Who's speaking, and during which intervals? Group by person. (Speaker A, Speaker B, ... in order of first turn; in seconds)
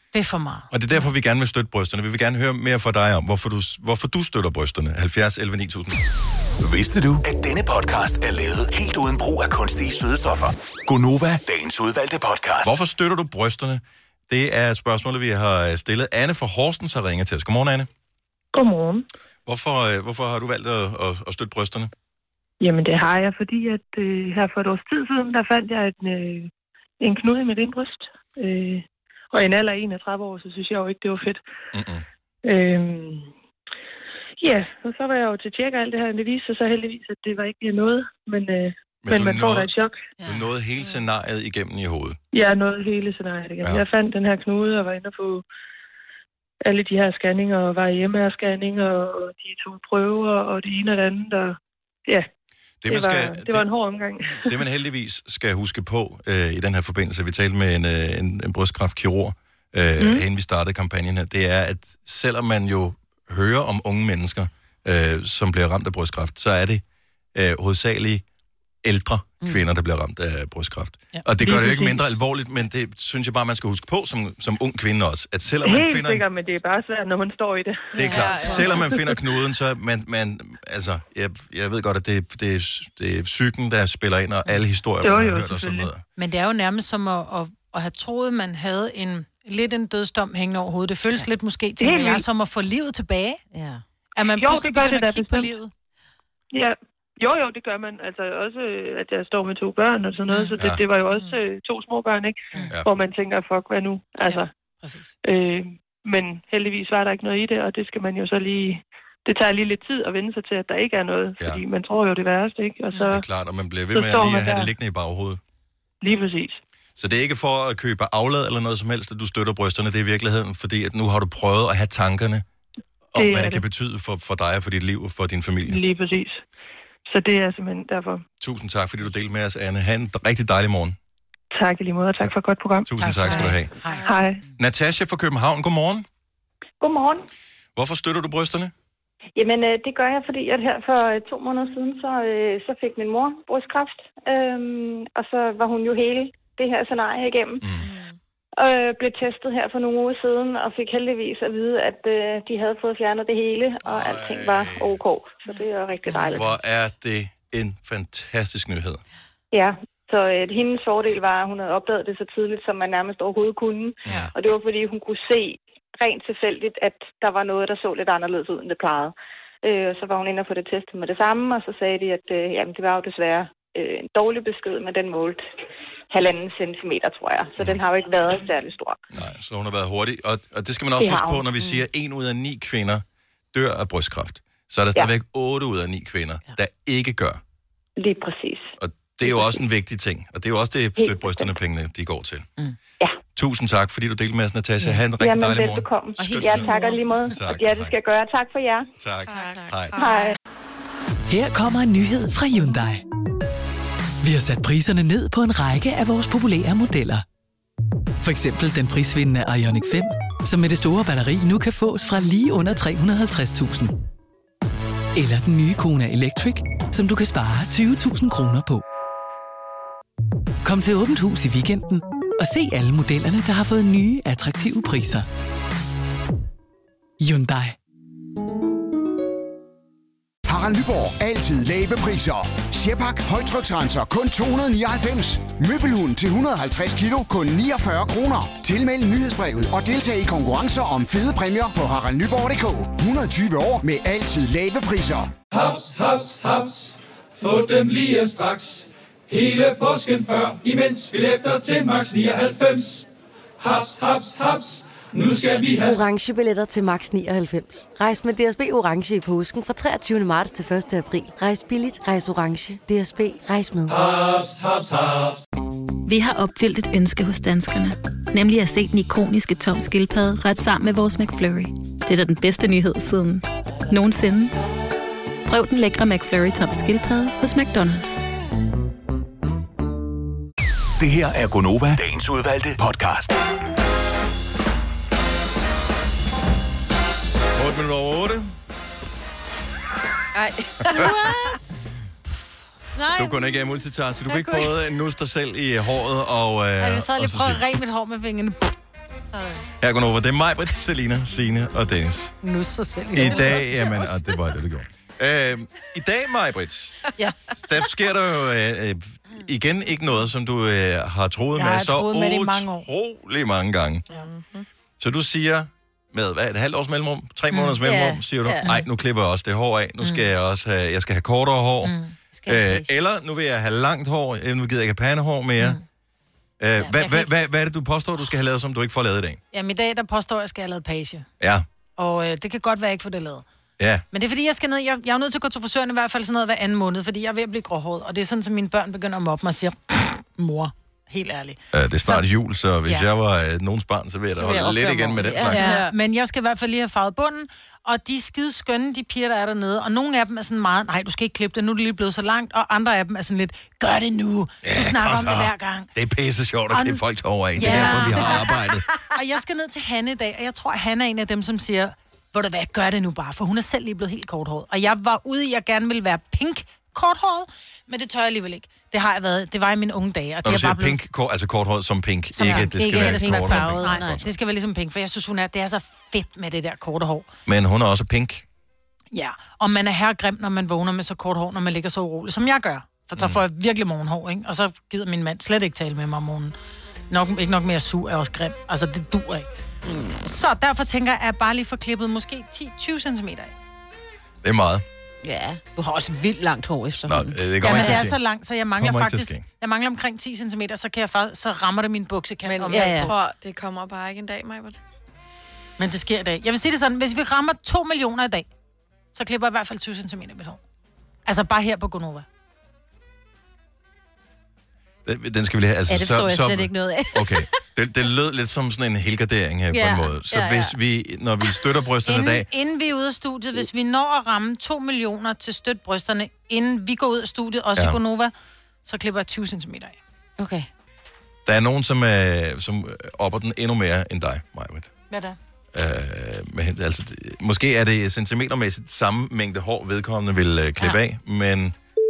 Speaker A: 0.1-0.7, 71.1-71.6, 86.2-93.4, 94.2-95.7, 104.3-105.1, 133.0-134.2, 296.8-298.7, 299.3-299.6, 302.4-304.1, 311.6-312.9, 317.5-317.8, 320.0-320.3, 321.8-322.1, 326.8-327.3, 329.5-331.3, 332.0-333.4, 334.1-342.2, 345.5-355.9, 356.7-357.0, 357.5-371.0, 372.4-377.3, 379.1-386.6, 387.1-389.5, 390.2-393.5, 397.6-403.2, 405.8-408.5, 409.1-410.6, 411.2-412.2, 422.0-428.3, 428.8-430.0, 435.1-435.4
Speaker B: 0.7-6.0, 12.6-17.9, 19.4-21.9, 31.7-32.0, 39.0-39.7, 40.2-42.2, 43.6-43.9, 52.8-53.7, 54.5-66.8, 67.3-68.2, 68.8-76.2, 77.9-86.0, 100.6-100.8, 102.7-103.0, 111.4-111.6, 113.1-115.4, 117.0-122.4, 123.1-125.8, 128.4-131.0, 132.8-133.7, 134.6-136.1, 137.8-138.7, 147.6-147.9, 153.8-155.0, 156.3-159.0, 164.0-164.3, 179.1-187.4, 188.8-192.5, 193.3-197.9, 199.0-200.0, 287.5-288.5, 293.1-297.6, 299.8-302.3, 303.1-307.0, 307.5-314.1, 315.0-325.8, 326.6-329.4, 331.4-331.6, 333.8-334.0, 341.7-345.7, 354.6-358.9, 370.4-374.3, 377.4-378.4, 383.1-383.4, 394.4-394.8, 397.0-398.2, 398.8-399.4, 415.0-422.5, 431.4-434.9, 435.7-441.7
Speaker C: 6.6-12.8, 281.0-283.4
Speaker D: 18.5-19.1, 22.6-26.5, 27.0-31.4, 32.4-33.3, 34.4-40.0, 42.3-45.4, 46.6-51.5, 52.9-54.5, 60.0-60.2, 71.4-71.9, 75.6-79.1, 85.0-85.9, 91.8-92.2, 94.4-95.5, 96.5-104.5, 105.2-113.2, 113.9-114.7, 116.0-116.6, 123.2-123.6, 125.7-126.4, 127.0-128.2, 131.5-132.9, 134.1-134.4
Speaker E: 77.9-78.9, 101.1-101.4, 147.8-148.2, 199.2-200.4, 290.3-291.2, 314.1-314.7, 402.4-404.8
Speaker F: 93.5-93.8, 196.2-197.0, 290.9-291.6, 292.9-294.7, 317.8-318.7, 322.3-322.9, 344.4-345.9, 357.6-358.4, 372.4-374.2, 395.2-398.0, 402.7-403.1, 415.9-417.5, 419.7-420.8, 430.4-430.7
Speaker G: 136.8-137.2, 139.4-147.7, 148.6-156.5, 159.5-175.4, 176.1-179.0, 181.0-181.4, 188.0-188.7, 189.2-189.6, 191.0-191.6, 195.2-198.9, 199.9-200.3
Speaker H: 201.3-203.0, 204.2-207.2, 208.2-213.9, 215.1-218.8, 220.6-225.3, 227.2-227.7
Speaker I: 230.5-245.3
Speaker J: 245.5-253.0, 253.6-256.0, 263.9-265.4
Speaker K: 255.7-264.1
Speaker L: 266.1-274.5, 275.4-278.3